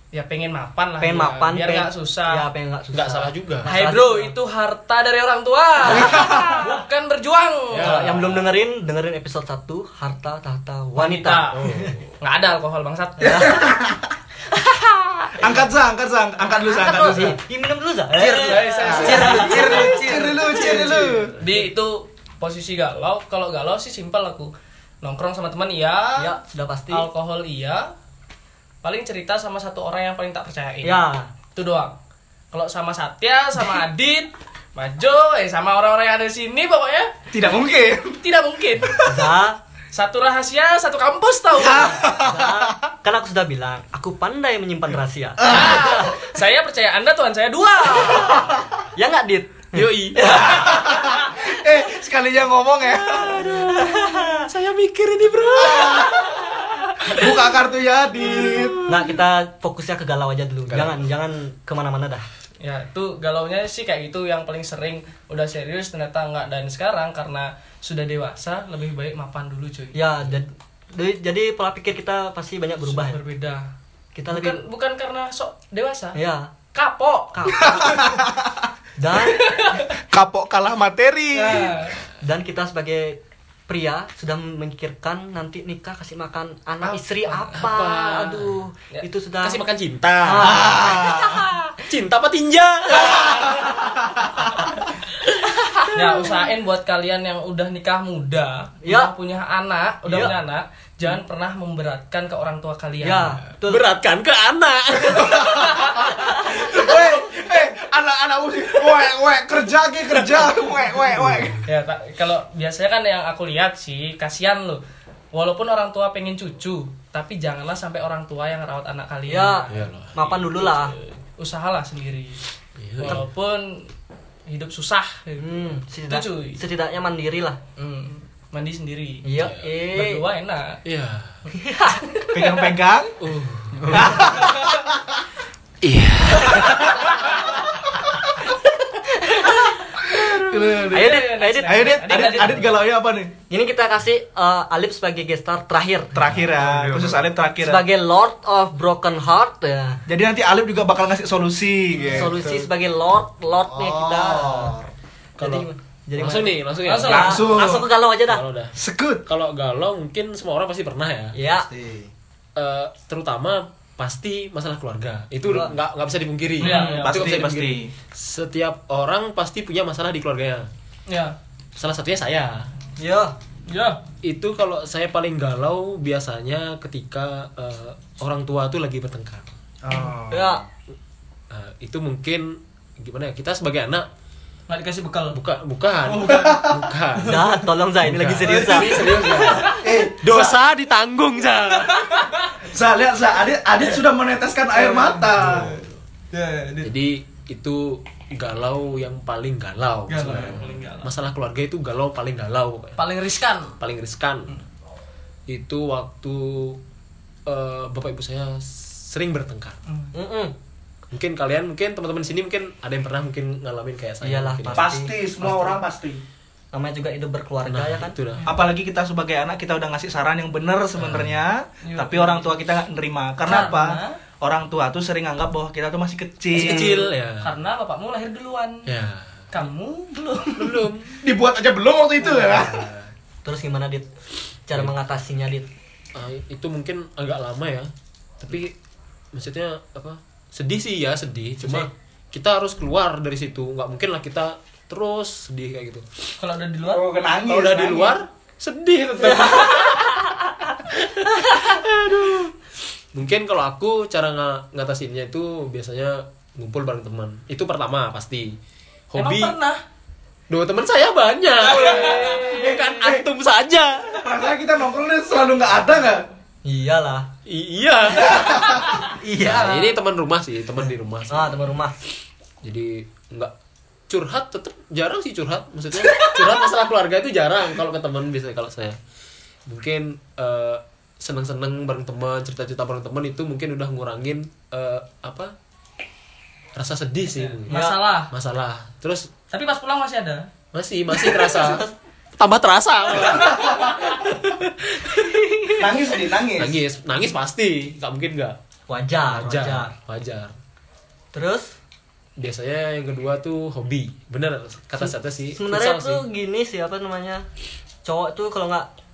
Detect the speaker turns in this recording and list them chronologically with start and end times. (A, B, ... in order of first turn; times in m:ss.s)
0:00.1-0:02.5 A
0:01.0-0:04.3 B
0:02.9-0:03.7 C
0:03.7-0:08.1 A
0:05.9-0:06.5 B
0:05.9-0:06.7 D
0:07.7-0:08.6 C
0:07.8-0:11.9 B
0:11.0-0:11.6 A
0:11.5-0:12.1 C
0:12.2-0:13.6 A
0:13.2-0:14.1 D
0:13.2-0:13.7 B
0:14.5-0:15.6 B
0:15.4-0:17.4 D
0:16.6-0:21.0 B
0:18.1-0:21.2 E
0:18.2-0:20.0 A
0:19.1-0:21.4 D
0:21.4-0:26.4 A
0:26.2-0:27.1 B
0:26.9-0:27.9 A
0:28.8-0:31.0 A
0:30.8-0:31.3 B
0:31.6-0:32.0 A
0:32.5-0:37.2 A
0:37.3-0:38.2 D
0:38.2-0:39.0 A
0:38.8-0:39.2 D
0:39.0-0:39.6 B
0:39.9-0:42.1 A
0:41.6-0:42.8 D
0:42.1-0:46.3 B
0:45.4-0:48.5 A
0:45.4-0:45.7 D
0:48.0-0:51.5 B
0:49.7-0:50.5 C
0:50.3-0:53.5 D
0:53.2-0:56.3 C
0:53.2-0:54.4 B
0:55.6-0:56.4 D
0:57.0-0:59.0 D
0:58.4-0:58.8 C
0:58.9-1:02.2 B
1:02.6-1:10.0 A
1:09.9-1:13.2 B
1:12.8-1:13.7 A
1:14.2-1:14.6 B
1:14.3-1:16.2 A
1:16.2-1:16.5 B
1:16.7-1:18.0 A
1:17.3-1:18.2 B
1:17.6-1:18.7 D
1:19.0-1:19.7 B
1:19.2-1:19.9 A
1:20.0-1:21.9 D
1:21.3-1:22.0 A
1:22.2-1:29.6 B
1:26.8-1:27.7 A
1:27.6-1:28.6 C
1:29.4-1:30.8 C
1:30.2-1:31.8 B
1:30.4-1:31.5 D
1:31.8-1:34.4 C
1:35.9-1:43.4 A
1:38.8-1:39.1 B
1:40.0-1:40.3 B
1:43.0-1:43.8 B
1:43.6-1:46.0 C
1:45.1-1:51.6 D
1:45.6-1:46.1 A
1:51.6-1:54.8 A
1:55.3-2:02.4 A
1:59.3-2:00.9 B
1:59.7-2:00.1 C
2:02.8-2:03.2 C
2:03.0-2:03.9 A
2:04.5-2:06.6 A
2:05.4-2:07.6 B
2:07.8-2:09.3 A
2:09.2-2:10.2 B
2:09.4-2:09.7 C
2:09.9-2:10.8 A
2:10.8-2:11.4 C
2:11.6-2:12.3 B
2:12.1-2:12.5 A
2:12.3-2:13.2 D
2:13.2-2:14.2 C
2:13.8-2:14.2 E
2:13.9-2:14.8 D
2:14.2-2:14.9 A
2:15.8-2:16.8 C
2:19.0-2:22.7 B
2:20.1-2:23.4 D
2:20.8-2:22.6 A
2:23.5-2:26.2 B
2:26.2-2:27.9 D
2:26.2-2:26.9 C
2:26.9-2:27.1 E
2:27.6-2:30.0 B
2:30.1-2:32.5 D
2:32.0-2:34.8 B
2:32.2-2:32.7 E
2:33.6-2:34.9 E
2:35.4-2:37.4 C
2:35.4-2:38.4 B
2:36.8-2:37.5 A
2:37.0-2:37.9 D
2:38.3-2:38.8 C
2:38.8-2:39.2 D
2:39.3-2:41.4 C
2:41.4-2:41.7 B
2:41.5-2:42.1 E
2:42.6-2:50.7 C
2:45.4-2:45.8 B
2:46.6-2:47.4 A
2:46.6-2:47.9 D
2:51.1-2:51.4 A
2:51.8-2:52.7 C
2:53.0-2:53.4 B
2:53.7-2:54.0 A
2:54.2-2:59.5 C
2:59.8-3:00.7 E
3:00.3-3:00.6 B
3:01.5-3:04.1 C
3:04.7-3:05.4 A
3:05.3-3:07.5 C
3:06.1-3:07.6 A
3:06.3-3:06.8 D
3:07.2-3:09.2 B
3:08.0-3:12.1 C
3:08.4-3:09.8 A
3:09.7-3:10.6 D
3:11.8-3:12.6 A
3:12.6-3:15.8 D
3:14.7-3:16.9 A
3:15.4-3:15.8 C
3:16.8-3:23.0 C
3:20.1-3:21.1 A
3:23.0-3:23.8 A
3:23.8-3:24.5 C
3:25.5-3:26.8 C
3:27.5-3:29.8 C
3:29.9-3:30.1 A
3:30.1-3:30.6 B
3:31.1-3:34.9 C
3:34.2-3:35.8 B
3:34.7-3:36.2 D
3:36.7-3:38.2 B
3:37.6-3:38.5 C
3:38.4-3:47.1 D
3:41.0-3:41.3 C
3:41.8-3:42.5 A
3:43.4-3:44.2 A
3:46.5-3:47.5 C
3:46.5-3:48.9 A
3:48.9-3:49.5 C
3:49.5-3:50.8 A
3:50.6-3:51.2 C
3:51.2-3:52.9 D
3:52.4-3:53.1 C
3:53.4-3:54.1 B
3:54.7-3:55.7 B
3:56.2-3:58.7 C
3:59.3-4:06.0 C
4:01.6-4:01.9 B
4:06.4-4:07.0 A
4:06.8-4:08.2 D
4:07.5-4:10.2 C
4:10.9-4:12.5 C
4:13.1-4:18.6 C
4:19.1-4:19.5 C
4:19.2-4:19.8 A
4:20.5-4:24.3 C
4:21.6-4:22.6 A
4:21.7-4:22.8 B
4:22.4-4:23.3 D
4:24.1-4:26.2 D
4:26.6-4:27.3 B
4:27.5-4:31.6 C
4:28.3-4:28.9 D
4:29.2-4:29.9 E
4:31.3-4:32.0 B
4:32.6-4:33.5 C
4:34.1-4:39.0 C
4:39.7-4:45.5 C
4:46.8-4:49.3 C
4:47.4-4:48.3 A
4:47.7-4:48.0 B
4:49.5-4:50.5 A
4:50.7-4:55.3 C
4:51.3-4:51.9 B
4:53.3-4:53.7 A
4:53.4-4:54.1 D
4:55.5-4:55.7 B
4:55.7-4:56.8 D
4:56.6-4:58.6 C
4:58.9-4:59.9 B
4:59.3-5:00.5 C
5:01.3-5:01.8 B
5:02.4-5:06.2 C
5:05.0-5:07.5 B
5:08.0-5:08.9 B